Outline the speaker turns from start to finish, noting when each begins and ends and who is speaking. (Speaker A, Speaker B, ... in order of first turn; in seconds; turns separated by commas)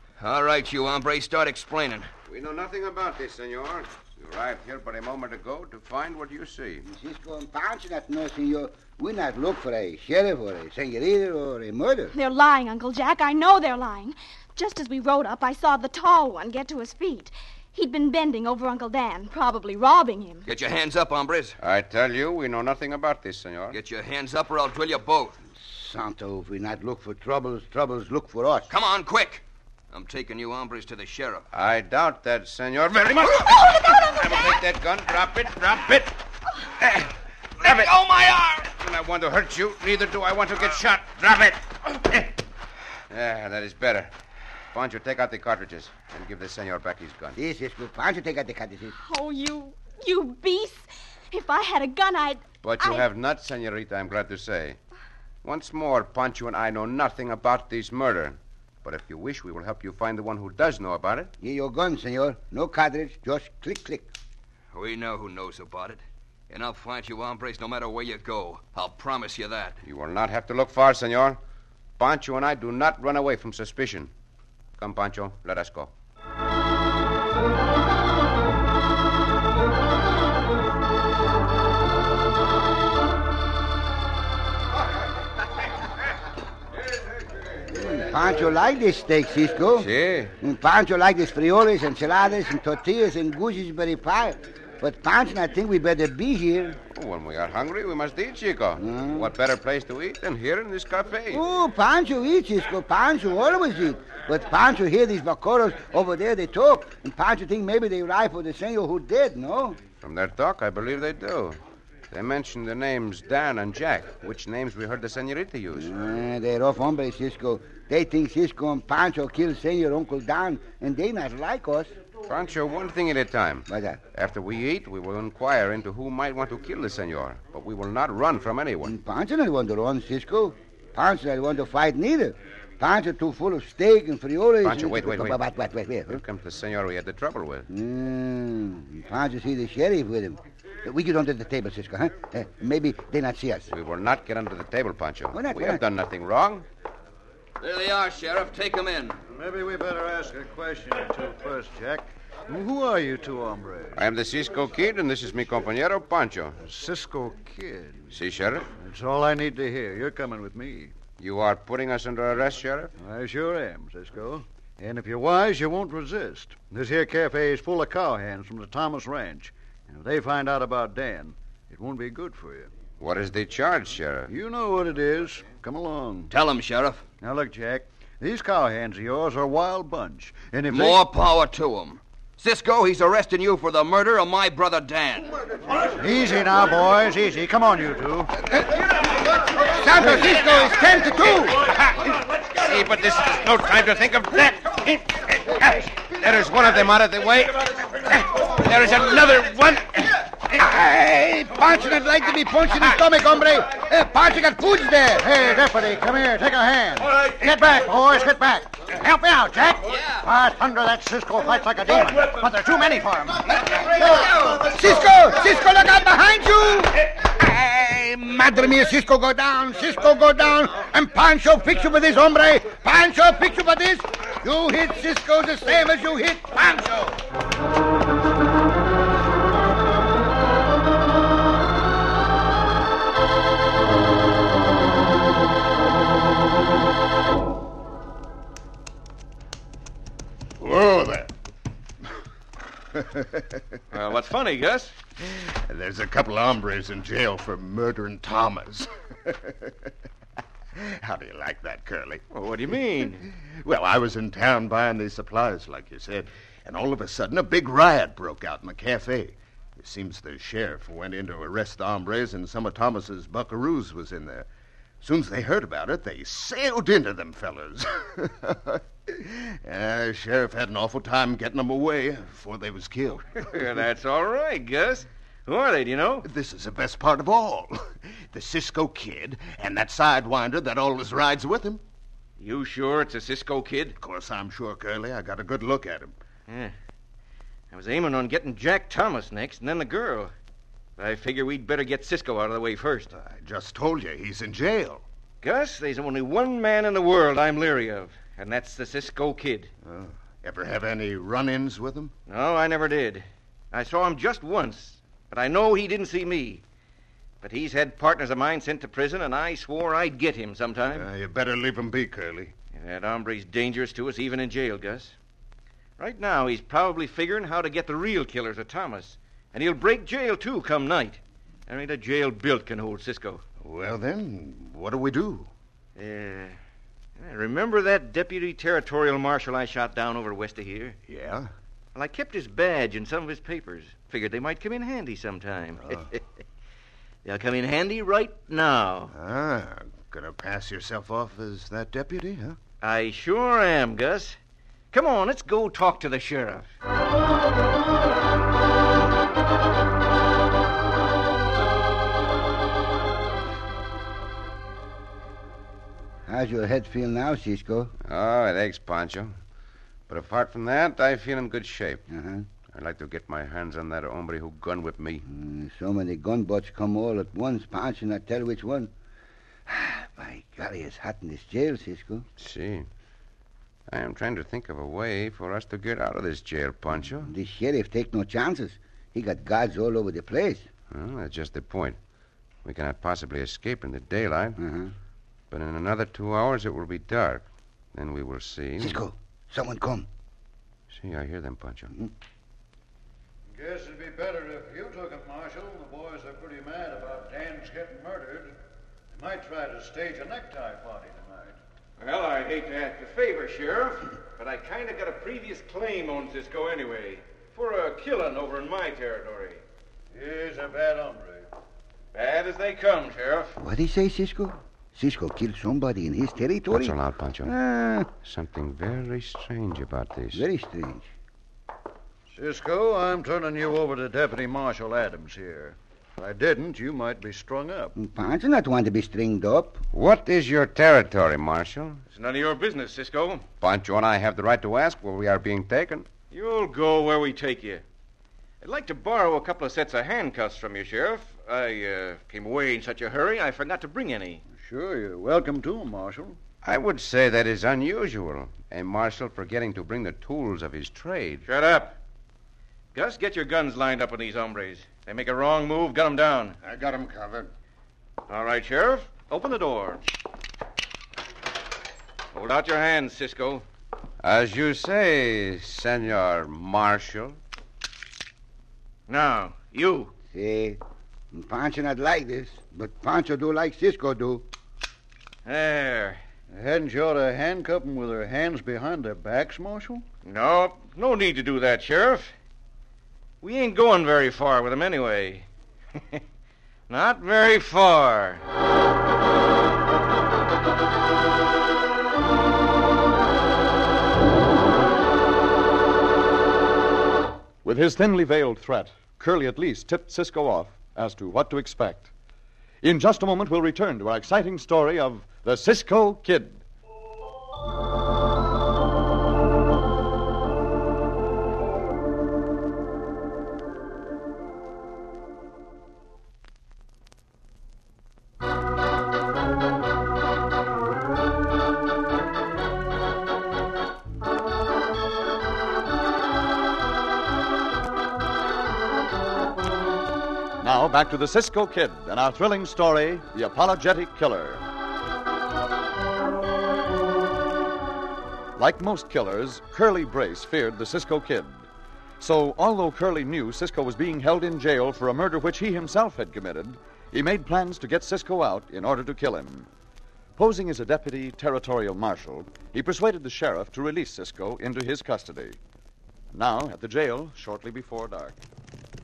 Speaker A: 0.2-2.1, Speaker B: 2.3-6.8, Speaker C: 6.8-12.1, Speaker D: 12.1-20.5, Speaker A: 20.5-21.6, Speaker B: 21.6-23.8, Speaker A: 23.7-25.4, Speaker C: 25.5-28.7, Speaker A: 28.7-31.4, Speaker B: 31.5-36.2, Speaker D: 33.6-34.5, Speaker B: 36.8-37.9, Speaker A: 37.6-38.7, Speaker B: 38.7-42.3, Speaker B: 43.1-44.1, Speaker B: 44.7-47.4, Speaker C: 47.4-49.0, Speaker D: 49.0-53.0, Speaker B: 52.6-54.8, Speaker B: 55.4-61.3, Speaker C: 61.4-64.1, Speaker A: 64.7-69.8, Speaker B: 69.8-71.4, Speaker B: 72.0-74.1, Speaker B: 74.8-75.9, Speaker C: 87.7-89.9, Speaker B: 89.8-90.3, Speaker C: 90.4-96.8, Speaker B: 96.9-101.4, Speaker C: 98.8-99.3, Speaker C: 101.3-109.8, Speaker B: 110.0-111.6, Speaker B: 112.1-115.9, Speaker C: 115.7-122.0, Speaker B: 122.2-128.9, Speaker C: 123.7-124.0, Speaker C: 128.8-136.2, Speaker B: 134.6-135.4, Speaker B: 136.1-137.7, Speaker C: 137.7-143.7, Speaker B: 143.7-146.7, Speaker C: 145.3-145.8, Speaker A: 147.6-149.2, Speaker E: 149.2-154.1, Speaker B: 153.9-156.6, Speaker E: 156.6-158.1, Speaker B: 158.1-158.7, Speaker E: 158.8-160.9, Speaker B: 161.2-162.9, Speaker E: 163.0-172.7, Speaker B: 173.0-174.3, Speaker E: 174.3-176.3, Speaker A: 176.3-177.0, Speaker E: 177.2-181.0, Speaker A: 180.7-185.3, Speaker E: 185.9-188.3, Speaker C: 189.6-191.8, Speaker B: 190.2-190.6, Speaker B: 191.5-200.3, Speaker C: 200.4-205.3, Speaker E: 205.1-213.5, Speaker A: 209.9-210.3, Speaker C: 213.5-226.7, Speaker A: 214.1-214.6, Speaker B: 226.6-227.1, Speaker F: 240.6-241.3, Speaker F: 242.9-243.6, Speaker G: 243.9-244.9, Speaker F: 245.2-249.7, Speaker F: 250.7-252.2, Speaker G: 252.3-253.3, Speaker F: 253.3-264.5, Speaker F: 265.0-273.4, Speaker G: 273.4-276.3, Speaker F: 276.2-281.8, Speaker G: 282.4-284.0, Speaker F: 284.0-286.1, Speaker G: 286.5-286.7, Speaker G: 287.7-290.3, Speaker G: 291.0-293.1, Speaker F: 293.1-295.0, Speaker G: 295.4-299.7, Speaker F: 299.8-302.1, Speaker G: 302.3-306.6, Speaker G: 307.4-311.1, Speaker F: 310.9-312.5, Speaker G: 312.7-315.1, Speaker G: 316.0-323.4, Speaker F: 323.6-325.5, Speaker G: 325.9-326.6, Speaker G: 327.2-331.0, Speaker F: 331.1-331.5, Speaker G: 331.9-336.2, Speaker G: 337.2-339.1, Speaker F: 339.1-342.6, Speaker G: 342.8-344.4, Speaker G: 344.9-346.7, Speaker C: 356.3-357.9, Speaker B: 358.0-359.3, Speaker B: 360.1-362.0, Speaker C: 362.1-362.5, Speaker B: 362.7-365.2, Speaker C: 365.2-368.9, Speaker C: 369.7-372.2, Speaker B: 372.4-372.9, Speaker B: 373.9-377.3, Speaker C: 377.0-380.7, Speaker B: 380.9-382.0, Speaker B: 382.6-384.6, Speaker C: 384.6-384.9, Speaker B: 385.5-389.0, Speaker C: 388.8-390.1, Speaker B: 390.9-391.9, Speaker E: 393.5-398.6, Speaker E: 399.1-401.6, Speaker G: 402.0-409.6, Speaker E: 410.1-411.5, Speaker G: 412.1-413.6, Speaker C: 413.6-418.1, Speaker B: 416.7-417.5, Speaker B: 418.2-420.4, Speaker C: 420.3-421.1, Speaker E: 422.3-427.9, Speaker C: 427.9-429.8, Speaker B: 429.9-432.0, Speaker G: 432.1-433.4, Speaker B: 433.6-436.1, Speaker G: 436.3-437.8, Speaker G: 438.6-444.4, Speaker E: 444.5-446.4, Speaker B: 446.6-451.4, Speaker G: 451.4-452.0, Speaker G: 452.9-456.6, Speaker F: 456.6-457.5, Speaker G: 458.3-460.0, Speaker G: 462.3-463.6, Speaker B: 464.2-467.4, Speaker G: 469.1-470.1, Speaker C: 470.3-470.8, Speaker C: 471.3-474.5, Speaker G: 475.4-476.2, Speaker E: 476.5-480.0, Speaker G: 480.2-482.3, Speaker G: 483.4-486.2, Speaker G: 486.9-488.4, Speaker H: 497.6-502.1, Speaker H: 502.8-506.6, Speaker H: 530.6-534.6, Speaker H: 538.5-541.7, Speaker H: 542.2-549.7, Speaker H: 550.4-555.6, Speaker H: 556.3-558.4